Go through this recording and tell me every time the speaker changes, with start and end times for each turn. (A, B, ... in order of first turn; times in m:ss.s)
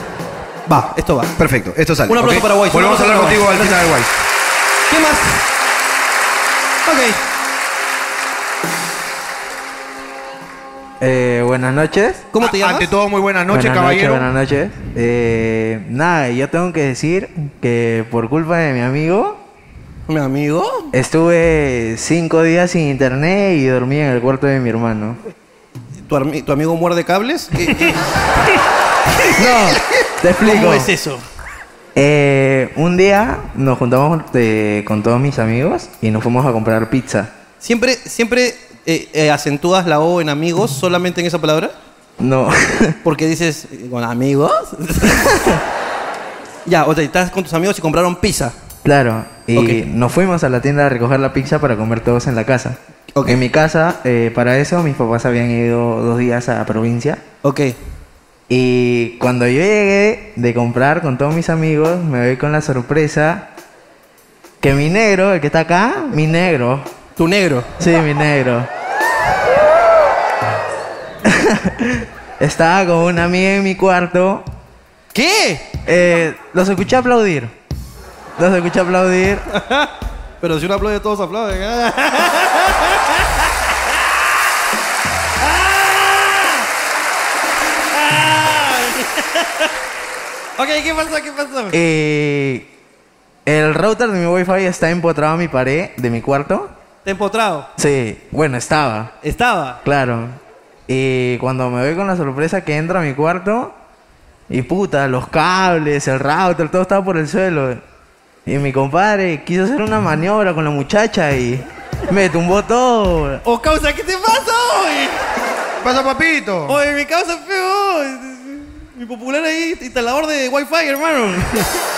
0:00.7-0:01.4 A
0:01.4-0:04.1 B
0:02.1-0:03.8 A
0:04.9-0:05.4 A
0:06.8-0:07.2 A
0:11.0-0:12.3 C
0:12.3-0:12.9 A
0:12.4-0:14.3 B
0:13.5-0:19.4 C
0:20.1-0:20.9 A
0:20.9-0:25.2 C
0:26.0-0:28.0 A
0:29.4-0:30.9 C
0:29.4-0:29.7 A
0:30.4-0:31.2 A
0:31.9-0:37.3 C
0:37.6-0:41.7 A
0:42.2-0:42.9 C
0:43.0-0:45.2 A
0:45.1-0:45.6 C
0:46.6-0:48.5 A
0:48.8-0:57.2 C
0:49.5-0:49.8 A
0:57.4-0:57.8 A
0:58.5-1:03.4 C
1:04.6-1:06.8 C
1:07.2-1:07.7 A
1:07.8-1:08.7 C
1:11.2-1:14.4 C
1:15.1-1:15.7 A
1:15.8-1:17.5 C
1:18.4-1:19.4 C
1:19.5-1:24.0 A
1:25.4-1:26.7 A
1:27.8-1:29.7 A
1:30.6-1:31.8 A
1:31.7-1:32.7 C
1:33.4-1:36.7 C
1:37.0-1:37.7 A
1:37.8-1:39.1 C
1:39.2-1:39.8 A
1:39.8-1:43.7 C
1:44.5-1:47.8 C
1:48.4-1:53.4 C
1:53.4-1:55.2 A
1:55.8-1:56.8 B
1:56.7-2:01.6 A